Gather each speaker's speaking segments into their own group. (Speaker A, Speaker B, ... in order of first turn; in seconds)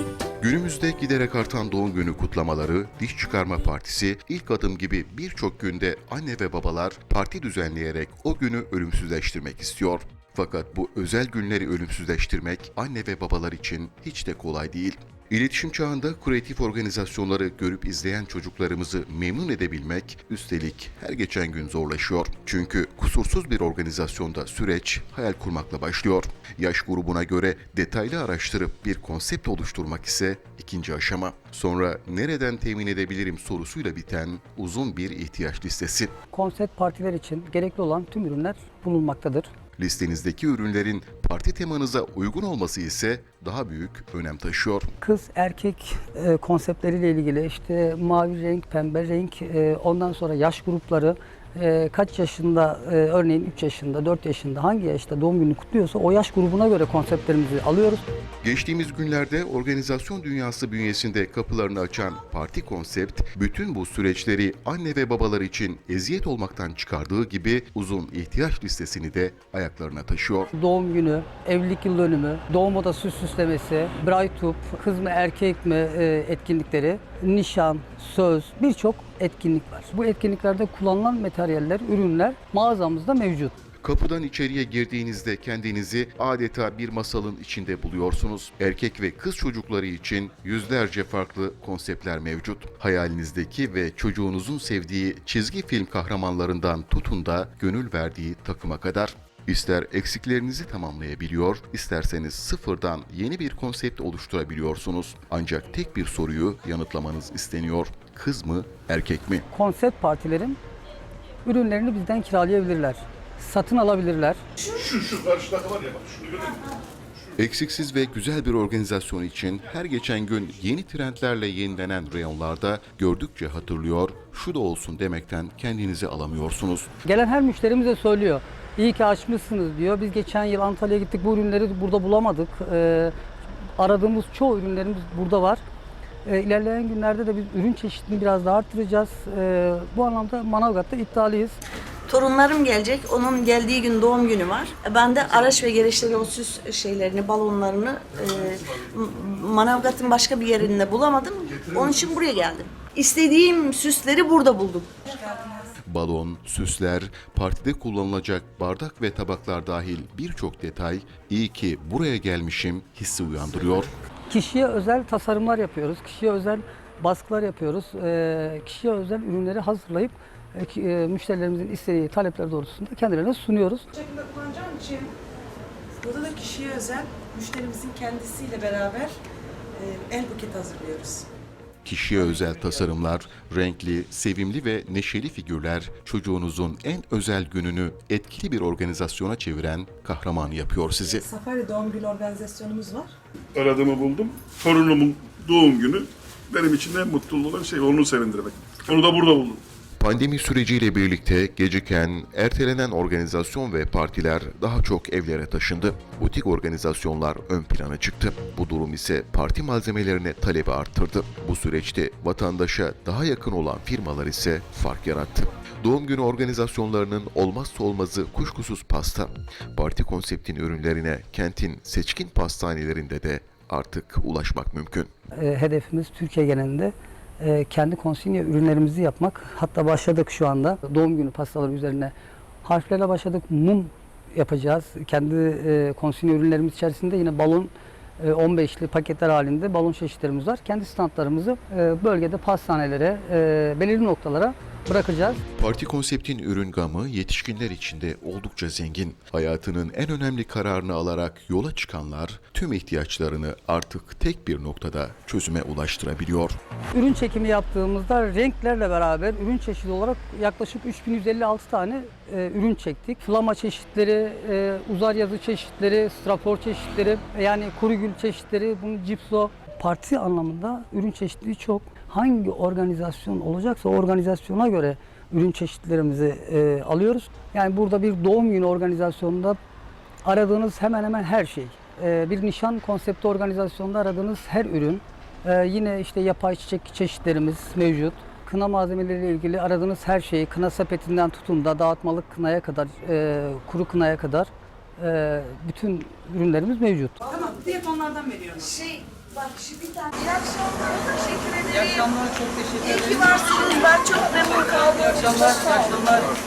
Speaker A: 0.4-36.1, 39.8-44.9, 58.4-70.5, 83.8-109.5, 117.4-126.9, 155.9-163.9, 181.8-191.2, 200.0-225.1, 245.6-256.6
Speaker B: 36.3-39.5, 45.0-58.0, 70.5-83.6, 109.5-110.6, 111.5-114.4, 127.0-133.1, 133.8-135.6, 136.2-141.6, 164.3-173.9, 225.3-245.4, 256.9-279.6, 280.2-297.3
Speaker C: 114.8-116.6, 193.6-199.6
Speaker D: 142.1-154.9, 299.6-300.3, 300.9-301.9, 302.9-306.0
Speaker E: 155.1-155.7, 173.9-175.1, 176.0-179.2, 179.8-181.3, 191.1-193.1, 297.3-299.0, 301.9-302.8, 303.5-304.6